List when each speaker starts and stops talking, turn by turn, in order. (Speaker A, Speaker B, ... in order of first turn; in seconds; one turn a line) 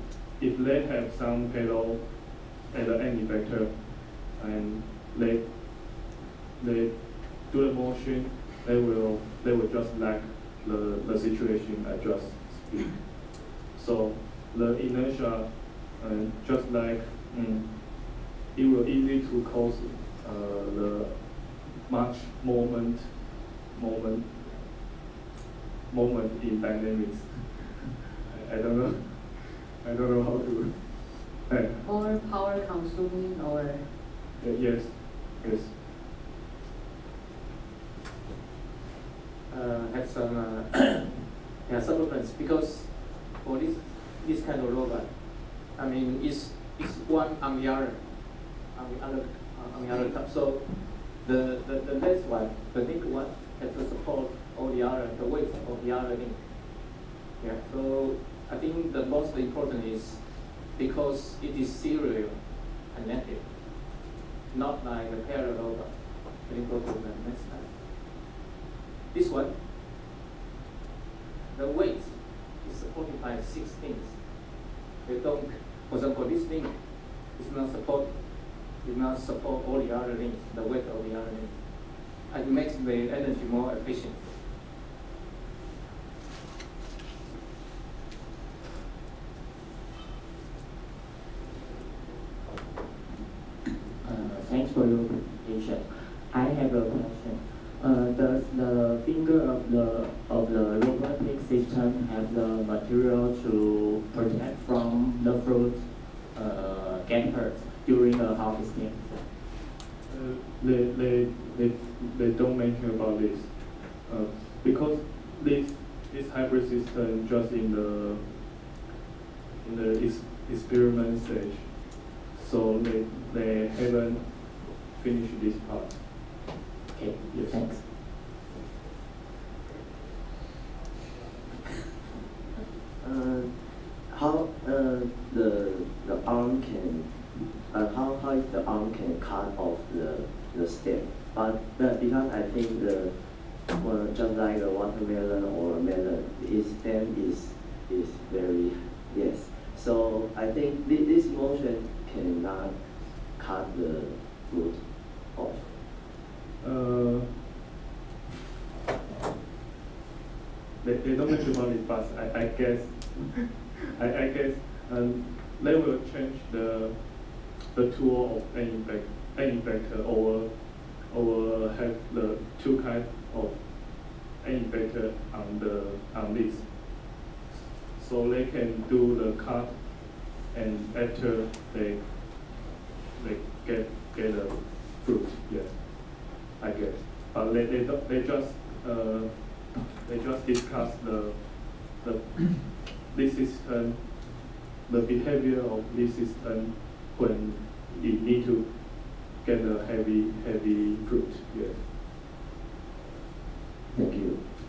Speaker A: 0.4-24.9
Speaker A: 25.9-31.8
Speaker B: 31.8-33.9
Speaker A: 34.4-35.8
Speaker C: 39.5-67.8
Speaker C: 69.1-69.6
Speaker C: 71.5-84.3
Speaker D: 94.0-109.2
Speaker A: 110.1-118.7
Speaker A: 119.6-126.1
Speaker D: 126.9-127.8
Speaker A: 127.3-127.6
Speaker E: 133.0-155.9
Speaker A: 156.6-157.5
Speaker A: 160.8-182.6
Speaker A: 183.2-201.8
Speaker E: 203.9-204.5